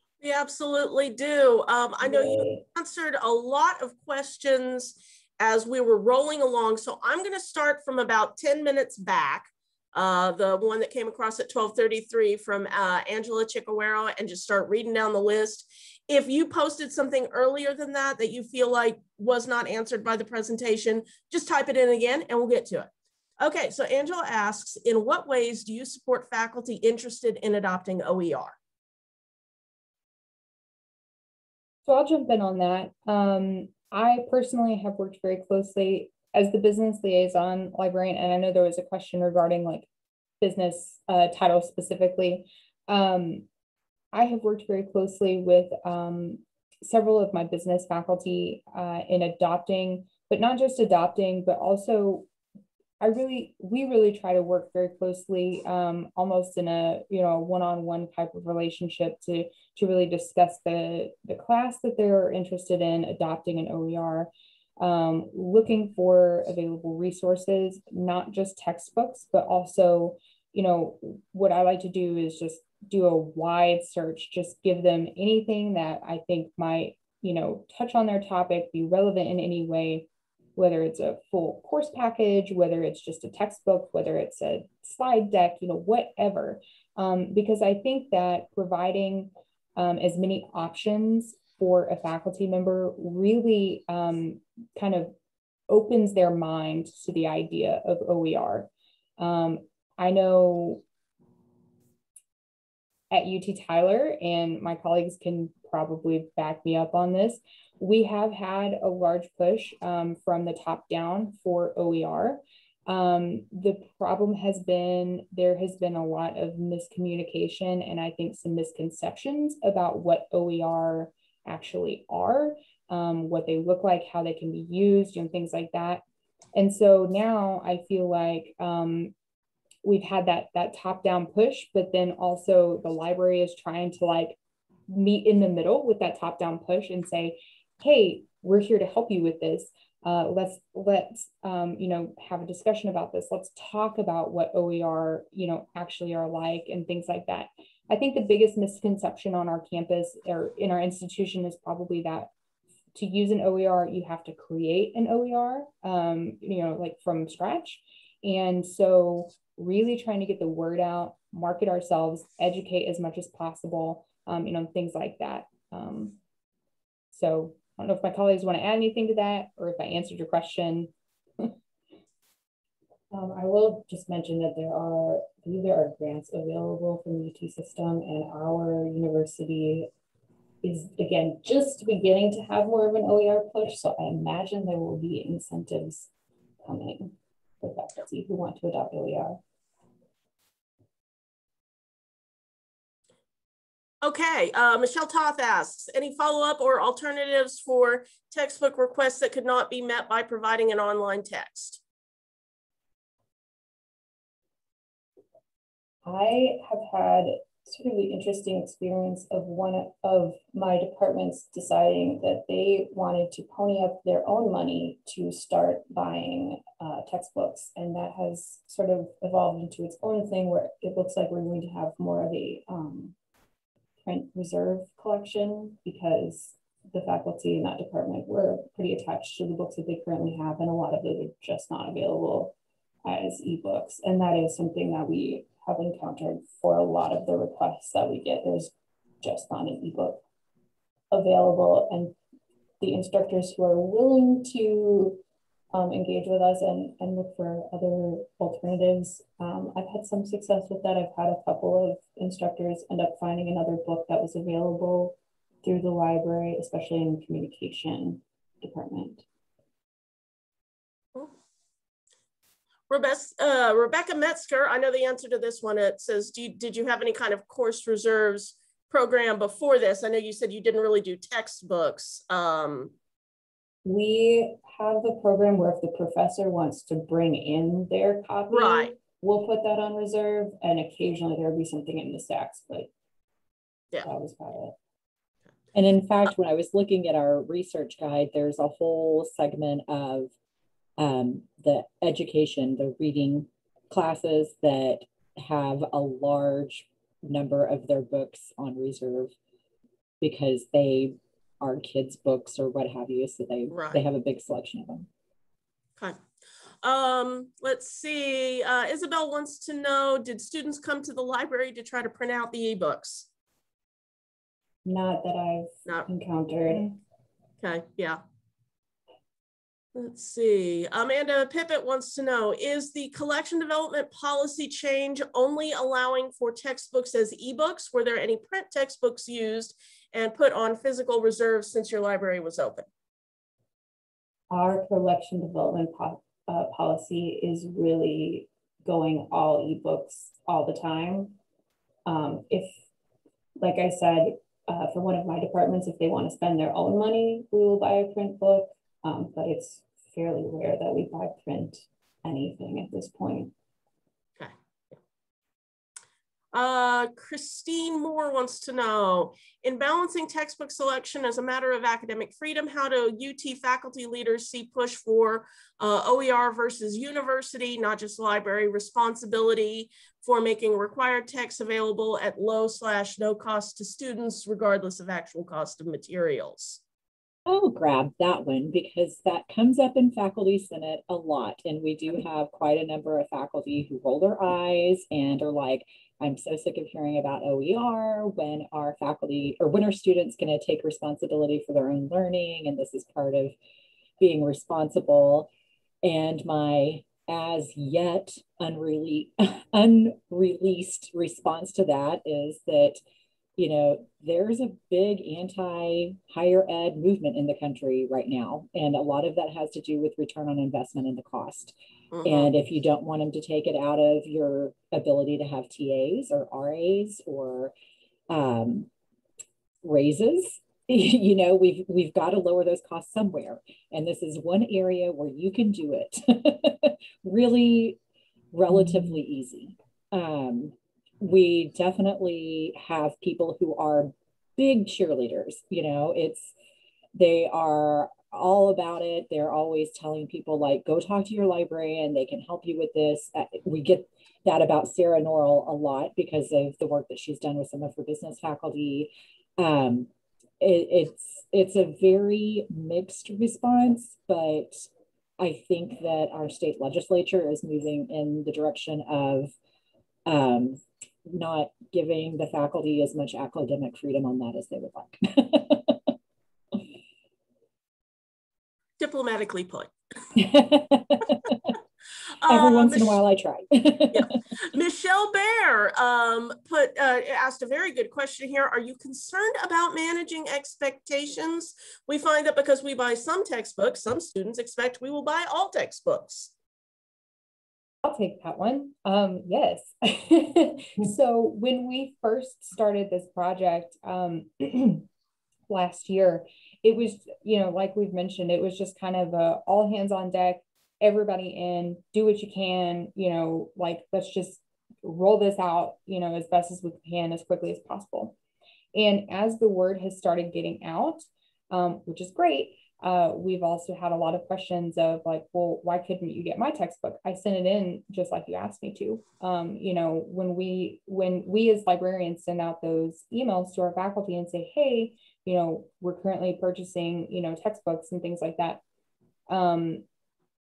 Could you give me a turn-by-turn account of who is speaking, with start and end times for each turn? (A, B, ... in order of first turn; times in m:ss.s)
0:00.2-0:28.6 A
0:02.0-0:02.6 B
0:31.8-0:39.9 C
0:40.4-0:43.4 C
0:44.1-0:52.3 C
0:53.0-1:35.1 C
1:35.7-1:40.8 C
1:43.1-2:06.0 C
2:06.5-2:09.1 C
2:09.8-2:32.3 C
2:32.9-2:46.2 C
2:47.1-2:50.9 C
2:53.1-2:59.9 B
3:00.6-3:06.1 B
3:06.6-3:09.4 B
3:14.0-3:21.8 A
3:26.0-3:43.1 B
3:44.0-4:00.2 B
4:01.1-4:02.2 B
4:02.8-4:05.2 B
4:05.7-4:19.2 B
4:22.9-4:32.9 A
4:33.8-4:42.9 B
4:38.5-4:38.9 A
4:44.0-4:44.8 B
4:45.7-4:50.3 D
4:51.0-4:59.3 D
5:00.2-5:05.1 D
5:03.7-5:04.0 A
5:06.0-5:06.2 A
5:06.8-5:13.3 A
5:14.8-5:17.0 B
5:17.6-5:18.2 A
5:19.9-5:32.8 A
5:34.5-5:41.4 B
5:42.0-5:42.8 B
5:43.6-5:53.5 B
5:56.5-6:16.8 A
6:17.5-6:33.5 D
6:34.2-6:35.5 D
6:36.0-6:43.0 D
6:43.6-6:57.7 D
6:52.1-6:52.5 A
6:58.3-6:58.9 D
6:59.8-7:08.0 D
7:08.5-7:16.5 D
7:17.1-7:39.5 D
7:40.2-7:46.1 D
7:49.0-7:49.9 A
7:50.4-7:51.7 D
7:52.4-7:53.2 A
7:52.4-7:54.3 D
7:54.1-8:06.5 A
8:08.0-8:15.0 C
8:15.7-8:28.3 C
8:28.9-8:48.8 C
8:49.5-8:50.0 C